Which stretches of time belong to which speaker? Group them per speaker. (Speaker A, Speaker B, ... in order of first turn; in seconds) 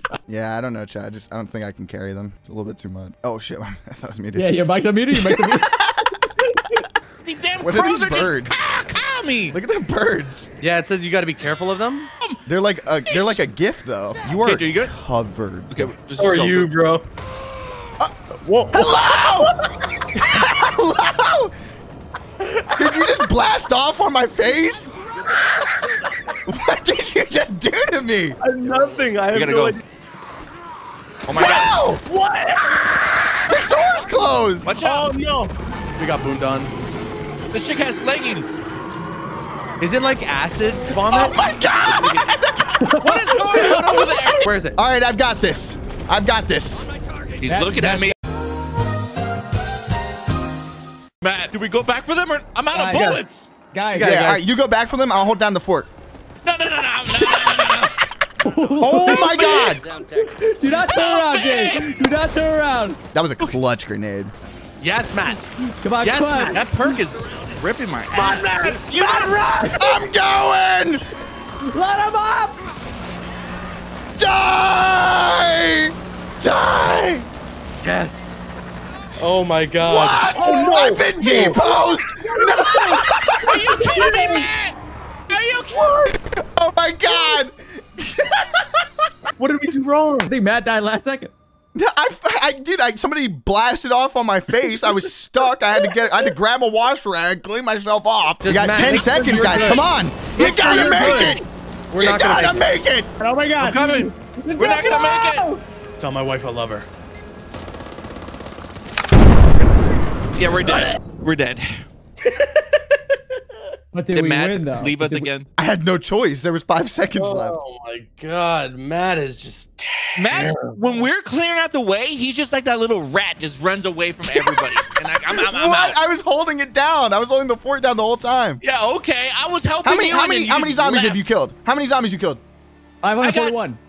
Speaker A: 0.3-4.6, 5.1-6.0, 7.6-8.7, 9.5-10.5, 12.5-15.9, 18.7-19.5, 20.1-21.5, 22.7-24.9, 26.4-28.4, 31.4-31.7, 33.4-34.7, 41.1-42.8, 43.5-46.9, 53.9-55.9, 58.8-59.8, 63.1-64.3, 69.8-71.0, 74.2-77.2, 79.8-83.7, 86.1-88.8, 91.7-101.4, 101.9-103.1, 115.6-117.6, 125.3-128.6, 129.8-132.4
Speaker B: 4.3-5.8, 47.4-48.1, 52.7-54.4, 58.4-63.0, 65.7-66.7, 69.3-70.0, 71.6-72.7, 80.5-81.2, 83.8-84.5, 90.2-91.3, 103.2-105.6, 113.9-115.3, 133.0-133.8
Speaker C: 7.2-9.6, 13.1-13.4, 14.3-14.9, 15.7-16.7, 29.3-29.8, 31.3-31.7, 34.6-35.1, 37.5-38.6, 43.0-44.5, 47.4-48.1, 51.2-53.5, 56.4-58.0, 59.1-59.8, 60.6-62.0, 66.5-69.3, 83.4-84.8, 85.3-86.1, 100.4-101.4, 103.6-105.5, 110.3-111.8, 114.1-115.5, 120.2-126.0, 128.6-131.2, 133.2-133.6
Speaker D: 10.6-12.1, 16.2-17.1, 18.4-19.5, 28.4-29.8, 31.4-32.9, 34.8-36.7, 39.8-41.4, 42.8-44.8, 54.0-54.4, 59.4-60.0, 64.8-65.5, 66.0-66.6, 68.1-69.7, 77.8-78.5, 79.2-81.6, 82.4-83.0, 89.4-90.3, 98.4-101.4, 101.9-102.7, 106.0-106.9, 112.2-112.8, 117.1-121.1